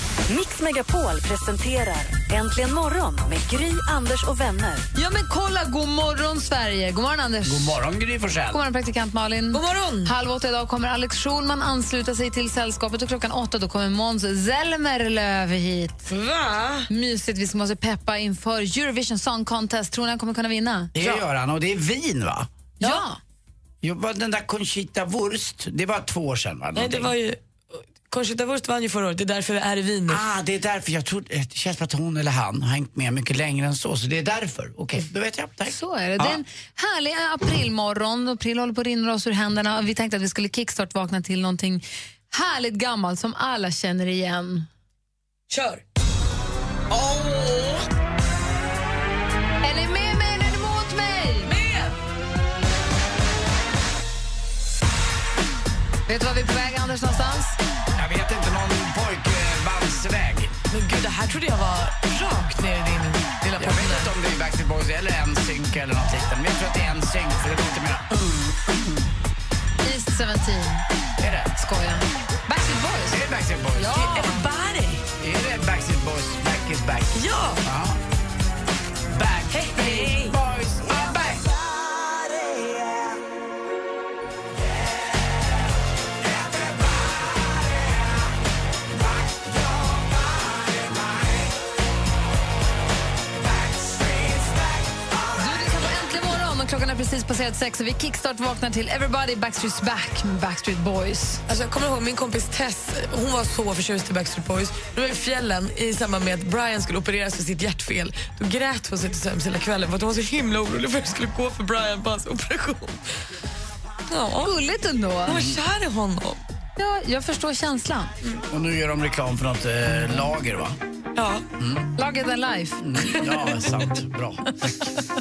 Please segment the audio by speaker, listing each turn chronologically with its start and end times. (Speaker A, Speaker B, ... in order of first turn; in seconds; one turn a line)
Speaker A: 0.3-4.8
Speaker B: 5.0-7.8
Speaker C: 7.5-8.6
Speaker B: 8.5-16.1
Speaker D: 9.5-10.1
Speaker D: 16.1-16.9
Speaker B: 16.9-20.9
Speaker C: 20.9-22.5
Speaker D: 21.0-21.2
Speaker B: 22.8-23.2
Speaker C: 23.8-27.1
Speaker D: 26.8-30.2
Speaker C: 30.1-36.4
Speaker B: 35.7-44.7
Speaker D: 45.5-45.8
Speaker D: 46.9-47.9
Speaker B: 49.6-51.5
Speaker D: 51.4-52.0
Speaker B: 56.1-57.6
Speaker C: 58.0-60.5
Speaker D: 60.7-64.1
Speaker C: 63.6-69.1
Speaker B: 69.8-70.9
Speaker C: 71.2-71.5
Speaker B: 71.6-73.2
Speaker C: 73.1-74.0
Speaker B: 73.8-74.5
Speaker D: 73.9-75.0
Speaker C: 75.2-78.0
Speaker D: 77.1-77.6
Speaker C: 79.1-81.5
Speaker D: 79.5-80.4
Speaker B: 95.4-101.4
Speaker D: 101.5-113.2
Speaker D: 114.1-114.6
Speaker B: 114.4-115.4
Speaker D: 115.3-116.4
Speaker C: 115.3-115.6
Speaker B: 116.8-118.2
Speaker C: 118.5-120.8
Speaker D: 121.2-121.5
Speaker C: 121.6-121.9
Speaker B: 122.0-123.2
Speaker C: 122.8-124.5